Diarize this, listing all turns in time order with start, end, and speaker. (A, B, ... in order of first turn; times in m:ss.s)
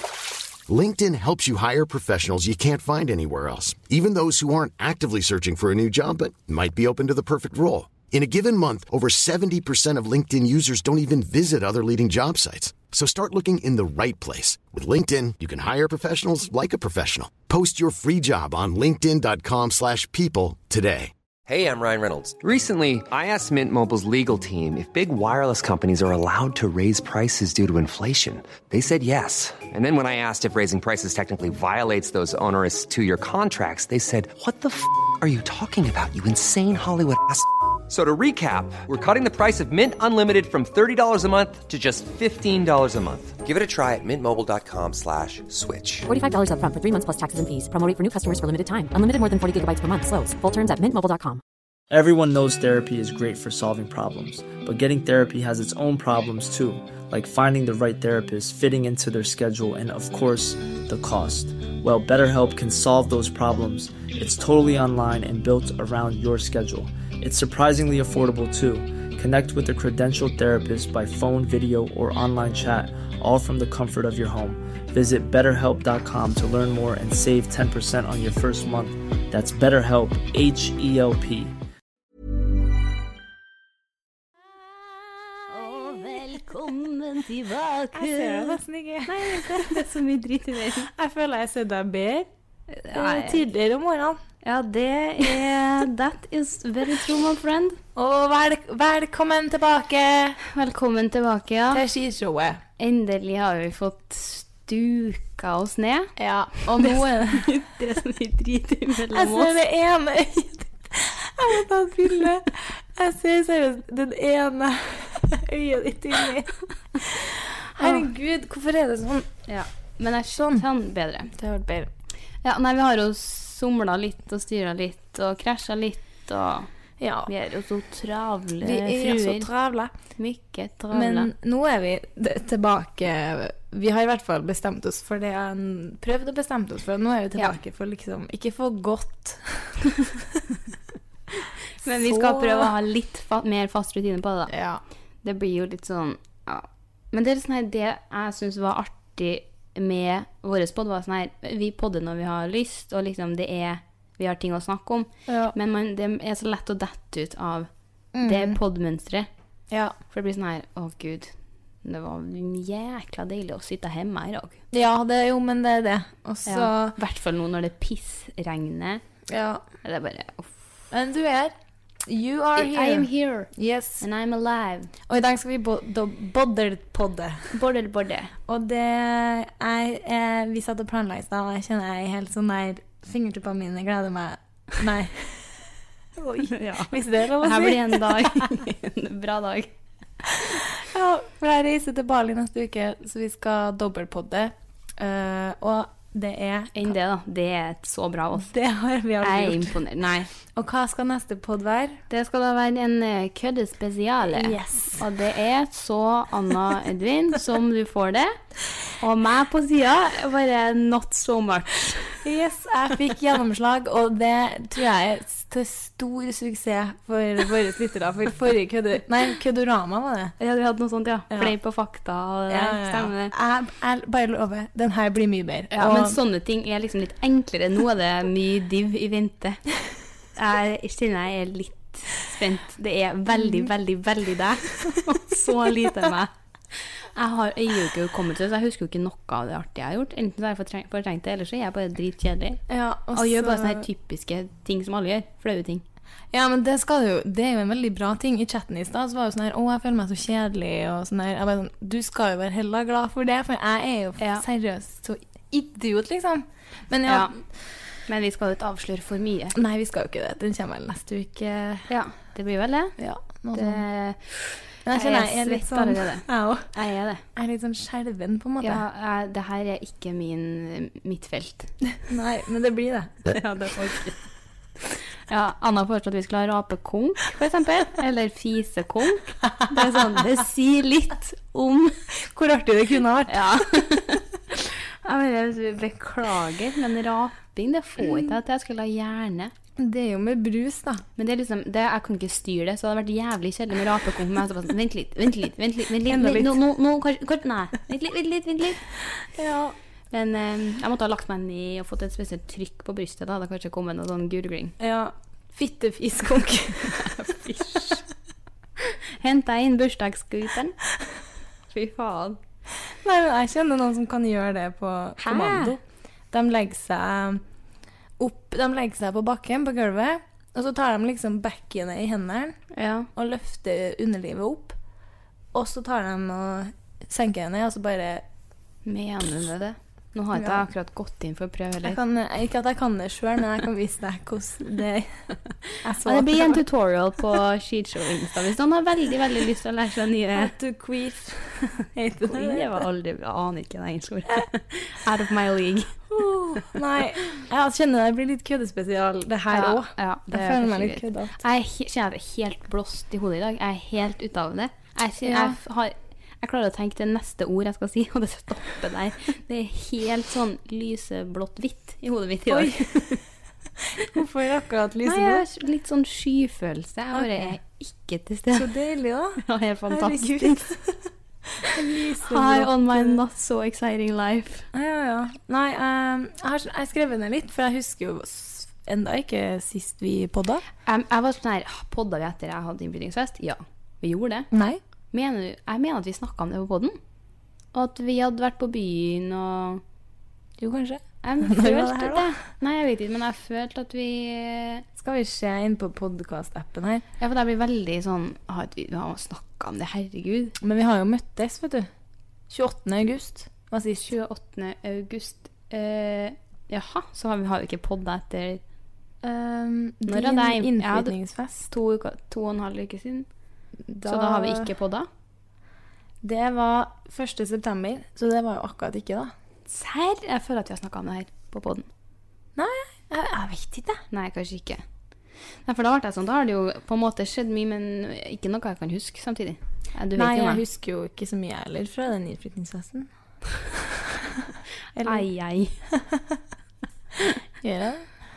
0:00.7-0:21.1 A
0:21.5-0:46.1 B
0:46.1-0:51.4 C
0:51.9-1:21.5 D
1:25.5-1:30.9 E
1:27.9-1:29.8 F
1:30.9-1:32.3 F
1:32.7-1:33.4 E
1:32.9-1:34.2 F
1:34.4-1:37.8 E
1:38.0-1:40.4 F
1:40.5-1:41.8 E
1:41.7-1:42.6 F
1:42.8-1:49.6 E
1:46.2-1:47.5 F
1:49.1-1:59.3 F
1:57.8-1:58.1 E
1:59.5-2:01.3 E
2:00.3-2:00.6 F
2:01.3-2:01.9 F
2:02.4-2:06.7 E
2:07.0-2:07.3 F
2:07.3-2:09.5 E
2:08.6-2:09.9 F
2:10.2-2:11.3 E
2:10.9-2:20.4 F
2:21.8-2:24.5 E
2:21.9-2:22.8 F
2:24.5-2:24.8 F
2:25.2-2:37.7 E
2:35.3-2:35.5 F
2:38.1-2:38.6 F
2:38.2-2:39.3 E
2:39.7-2:40.0 F
2:40.1-2:44.6 E
2:44.7-2:47.0 F
2:46.5-2:49.0 E
2:49.3-2:49.6 F
2:49.8-2:50.5 E
2:50.9-2:51.5 F
2:52.1-2:54.0 F
2:52.6-2:54.9 E
2:55.1-2:57.6 F
2:57.5-2:58.3 E
2:58.5-3:05.6 F
3:06.2-3:08.5 F
3:06.5-3:09.7 E
3:10.3-3:16.9 F
3:16.7-3:18.5 E
3:18.4-3:19.8 F
3:19.2-3:20.3 E
3:20.5-3:22.0 F
3:22.1-3:28.4 E
3:24.3-3:25.0 F
3:29.0-3:32.2 E
3:32.2-3:40.3 F
3:40.4-3:43.3 E
3:41.3-3:41.6 F
3:42.5-3:46.2 F
3:45.7-3:49.6 E
3:50.4-4:02.6 E
4:02.7-4:03.9 F
4:03.1-4:05.8 E
4:06.3-4:17.4 F
4:17.1-4:17.3 E
4:18.1-4:19.6 E
4:19.6-4:21.9 F
4:21.9-4:23.0 E
4:23.0-4:23.8 F
4:23.5-4:27.2 E
4:24.9-4:26.7 F
4:27.4-4:28.8 F
4:28.6-4:31.7 E
4:32.0-4:33.4 F
4:33.3-4:34.2 E
4:34.9-4:42.0 E
4:42.2-4:43.6 F
4:43.3-4:49.5 E
4:49.8-4:51.0 F
4:51.2-4:58.9 E
4:56.1-4:56.6 F
4:59.3-4:59.8 F
5:00.1-5:04.8 E
5:04.8-5:07.2 F
5:06.8-5:08.0 E
5:08.8-5:10.8 E
5:11.7-5:12.4 E
5:12.9-5:17.4 F
5:15.2-5:15.7 E
5:18.2-5:22.6 F
5:22.7-5:23.1 E
5:23.1-5:24.8 F
5:25.5-5:28.2 F
5:28.8-5:32.0 E
5:30.4-5:30.7 F
5:31.8-5:35.2 F
5:35.8-5:36.6 F
5:36.0-5:40.5 E
5:40.4-5:42.8 F
5:42.2-5:46.7 E
5:46.1-5:51.4 F
5:49.5-6:03.2 E
5:55.2-5:55.6 F
6:02.5-6:03.2 F
6:04.1-6:05.4 F
6:05.0-6:08.7 E
6:07.1-6:07.6 F
6:08.5-6:11.1 F
6:09.4-6:10.6 E
6:11.6-6:13.2 F
6:12.2-6:14.7 E
6:14.7-6:20.6 F
6:20.8-6:24.5 E
6:24.5-6:24.8 F
6:25.1-6:27.0 E
6:27.7-6:29.8 E
6:30.6-6:32.3 F
6:31.2-6:34.8 E
6:35.0-6:37.0 F
6:37.2-6:40.6 E
6:40.6-6:41.9 F
6:42.5-6:44.1 F
6:44.0-6:48.6 E
6:49.2-6:51.7 F
6:50.1-6:51.1 E
6:51.7-6:53.3 E
6:53.9-6:54.7 F
6:54.1-6:55.1 E
6:56.2-6:59.3 F
6:59.7-7:01.9 E
7:02.6-7:04.0 F
7:04.1-7:04.8 E
7:05.6-7:10.6 E
7:10.2-7:13.1 F
7:13.8-7:15.3 F
7:15.0-7:15.8 E
7:15.9-7:16.4 F
7:17.6-7:18.1 F